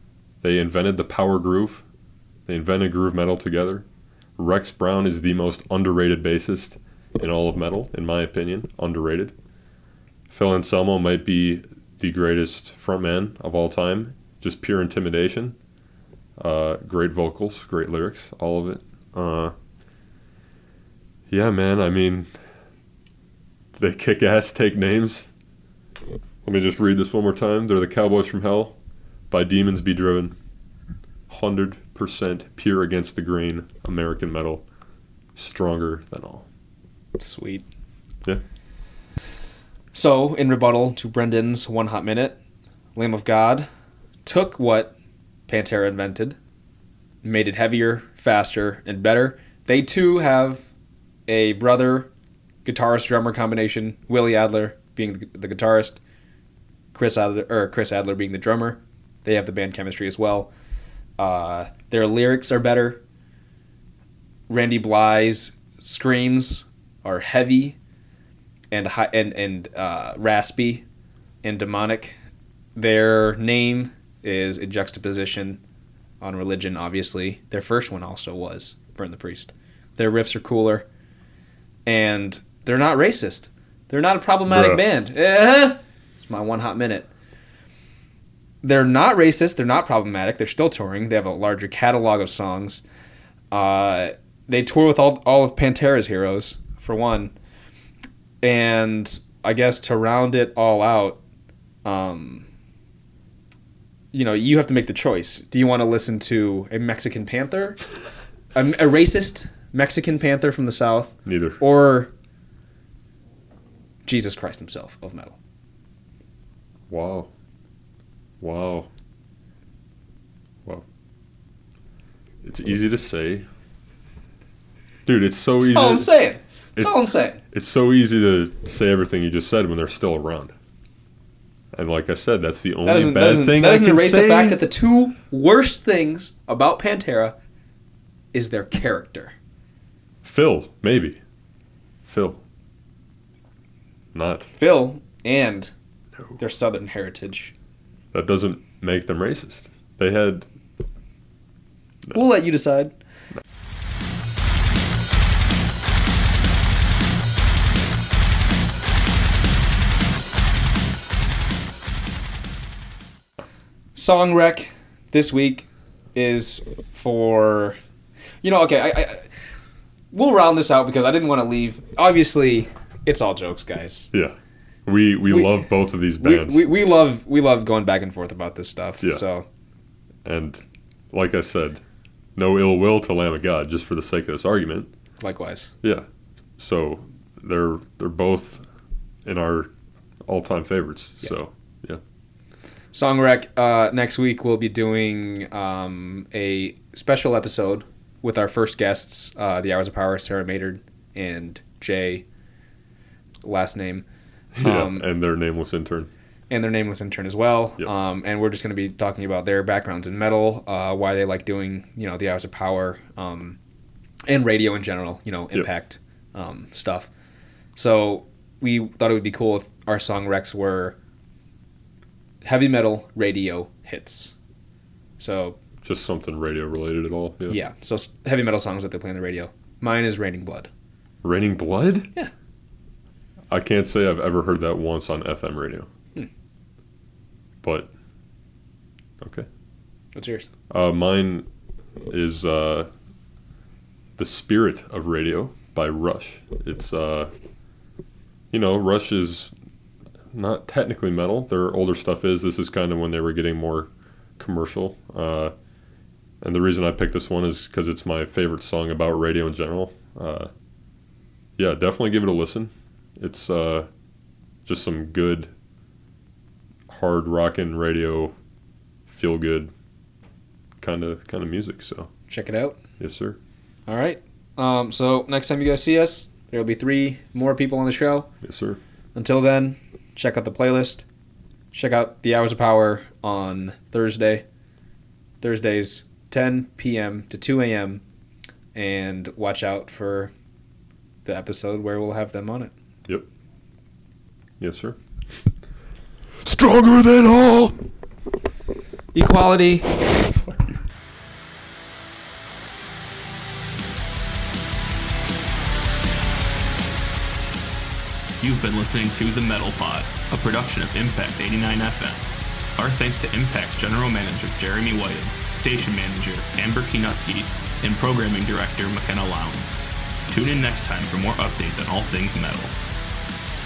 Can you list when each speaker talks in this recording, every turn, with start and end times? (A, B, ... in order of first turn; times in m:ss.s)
0:00.4-0:01.8 A
0:02.5-0:03.8 A
0:04.4-0:09.3 A
0:10.3-0:15.6 A
0:16.4-0:19.5 A
0:21.3-0:22.3 A
0:23.8-0:25.3 A
0:26.4-0:28.8 A
0:29.3-0:30.3 A
0:31.3-0:34.6 A
0:35.4-0:36.4 A
0:37.2-0:37.6 B
0:39.9-0:42.4 B
0:43.0-0:43.7 B
0:44.2-0:44.9 B
0:45.5-0:46.4 B
0:47.2-0:50.7 B
0:51.3-0:52.1 B
0:52.6-0:56.0 B
0:56.9-1:00.5 B
1:01.2-1:03.0 B
1:04.5-1:07.8 B
1:08.7-1:10.8 B
1:11.4-1:12.1 B
1:12.8-1:15.6 B
1:16.2-1:20.8 B
1:21.8-1:27.1 B
1:24.5-1:24.8 A
1:28.6-1:32.8 B
1:33.5-1:37.3 B
1:38.4-1:41.2 B
1:41.8-1:42.4 B
1:44.1-1:47.8 B
1:48.5-1:52.1 B
1:51.2-1:51.6 A
1:54.0-1:55.4 B
1:56.9-1:57.3 A
1:58.4-1:58.9 A
2:02.4-2:03.4 A
2:05.0-2:06.1 A
2:05.6-2:07.4 B
2:06.8-2:10.5 A
2:11.7-2:14.6 A
2:12.8-2:17.3 B
2:18.3-2:19.3 B
2:20.2-2:21.2 A
2:22.0-2:22.4 A
2:24.1-2:24.5 A
2:24.6-2:25.7 B
2:26.4-2:27.5 B
2:28.1-2:30.4 A
2:32.1-2:32.9 B
2:43.9-2:47.8 B
2:48.4-2:49.3 B
2:50.1-2:54.1 B
2:54.1-2:56.6 A
2:56.2-2:59.4 B
3:00.2-3:01.8 A
3:02.3-3:04.9 A
3:05.2-3:05.7 B
3:05.8-3:06.1 A
3:06.6-3:08.6 A
3:09.2-3:09.7 A
3:10.2-3:12.0 A
3:12.9-3:22.2 B
3:23.4-3:24.0 B
3:24.5-3:26.1 A
3:24.6-3:25.0 B
3:26.5-3:33.6 B
3:34.3-3:37.1 B
3:37.8-3:41.0 B
3:42.4-3:44.3 B
3:45.2-3:45.6 B
3:45.8-3:47.6 A
3:47.5-3:50.7 B
3:51.2-3:52.1 A
3:53.5-3:55.9 A
3:57.6-3:57.9 A
3:59.2-3:59.5 A
4:00.1-4:00.5 B
4:00.7-4:01.5 A
4:02.1-4:02.9 A
4:04.2-4:07.3 A
4:08.5-4:09.5 A
4:10.3-4:15.5 A
4:16.4-4:20.5 A
4:21.6-4:23.9 A
4:24.6-4:25.5 A
4:26.9-4:28.3 A
4:29.1-4:29.7 A
4:30.8-4:32.1 A
4:32.3-4:32.8 B
4:33.0-4:33.4 A
4:33.9-4:38.3 B
4:38.4-4:38.8 A
4:39.1-4:41.0 B
4:41.7-4:44.4 B
4:45.4-4:48.0 B
4:48.7-4:50.3 B
4:51.2-4:52.7 B
4:54.6-4:55.0 A
4:56.4-4:57.8 A
4:59.1-5:00.0 B
5:00.5-5:00.8 A
5:08.4-5:12.2 C
5:12.8-5:19.8 C
5:20.3-5:22.7 C